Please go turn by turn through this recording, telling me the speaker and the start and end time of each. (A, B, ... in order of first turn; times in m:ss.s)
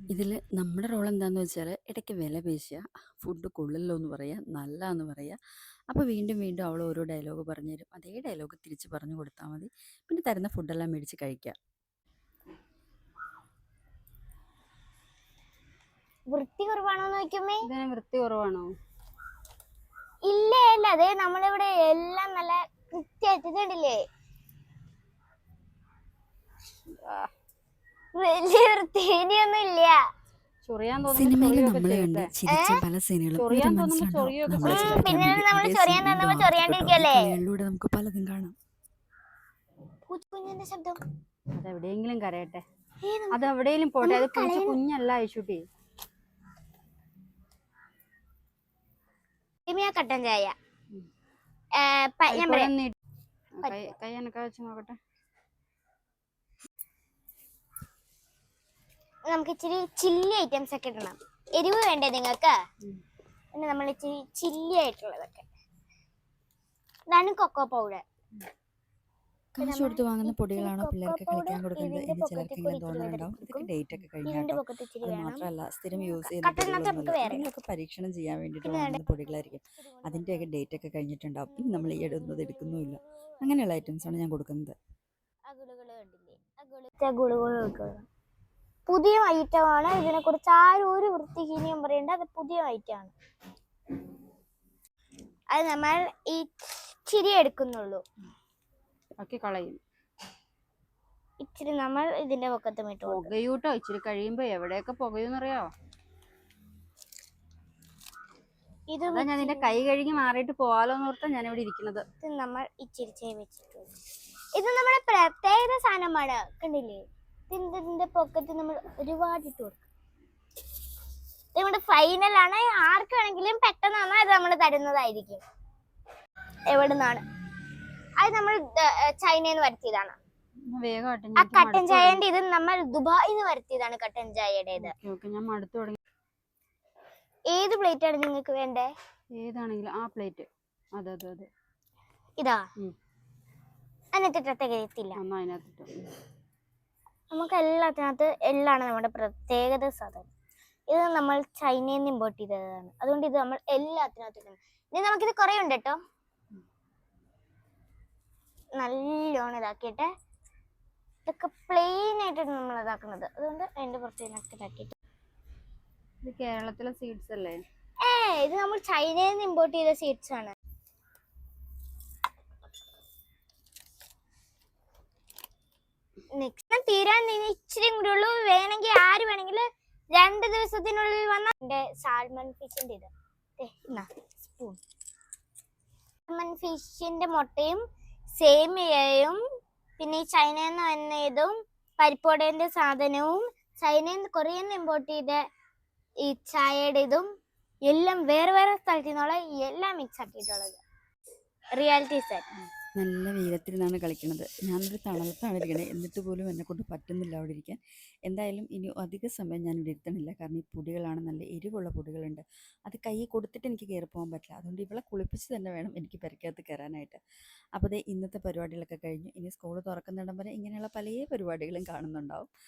0:00.1-0:05.4 A
0:05.9-0:11.6 A
0:16.3-0:17.7 B
0:17.6-0:18.7 C
0:20.3-0:24.0 B
0:27.0-0:27.3 C
0:28.2-0:30.0 B
0:30.6-0:32.3 C
0:31.1-0:38.6 A
0:32.5-0:32.8 B
0:33.4-0:35.3 C
0:34.6-0:37.3 B
0:40.1-0:41.0 B
0:41.6-0:42.6 C
0:43.0-0:43.5 B
0:43.3-0:45.6 C
0:44.0-0:44.8 B
0:49.7-0:50.6 B
0:51.8-0:52.7 B
0:52.3-0:53.0 C
0:53.6-0:55.0 C
0:59.3-1:02.6 B
1:03.5-1:05.5 B
1:07.1-1:08.0 B
1:09.6-1:24.8 A
1:09.6-1:13.7 B
1:14.2-1:17.5 B
1:18.6-1:20.5 B
1:21.5-1:24.1 B
1:25.5-1:28.1 B
1:28.9-1:33.1 B
1:35.5-1:38.0 B
1:39.2-1:39.8 C
1:41.4-1:43.4 B
1:43.1-1:45.7 C
1:48.9-1:49.8 B
1:49.1-1:52.0 C
1:52.2-1:53.9 B
1:54.6-1:59.9 B
2:01.6-2:05.4 B
2:06.7-2:07.2 B
2:08.2-2:10.2 B
2:10.7-2:12.2 C
2:11.4-2:14.9 B
2:14.8-2:16.0 C
2:17.5-2:18.9 B
2:19.4-2:21.5 C
2:22.4-2:22.6 B
2:24.1-2:25.2 B
2:25.2-2:26.1 C
2:27.3-2:30.3 B
2:30.9-2:36.0 B
2:38.8-2:40.1 B
2:41.2-2:44.9 B
2:46.2-2:47.6 C
2:48.0-2:50.5 B
2:56.3-3:04.8 B
3:06.3-3:07.8 B
3:08.4-3:09.4 B
3:10.0-3:15.4 B
3:16.3-3:17.3 B
3:17.9-3:20.8 B
3:21.8-3:22.4 B
3:23.0-3:37.2 A
3:37.8-3:42.5 A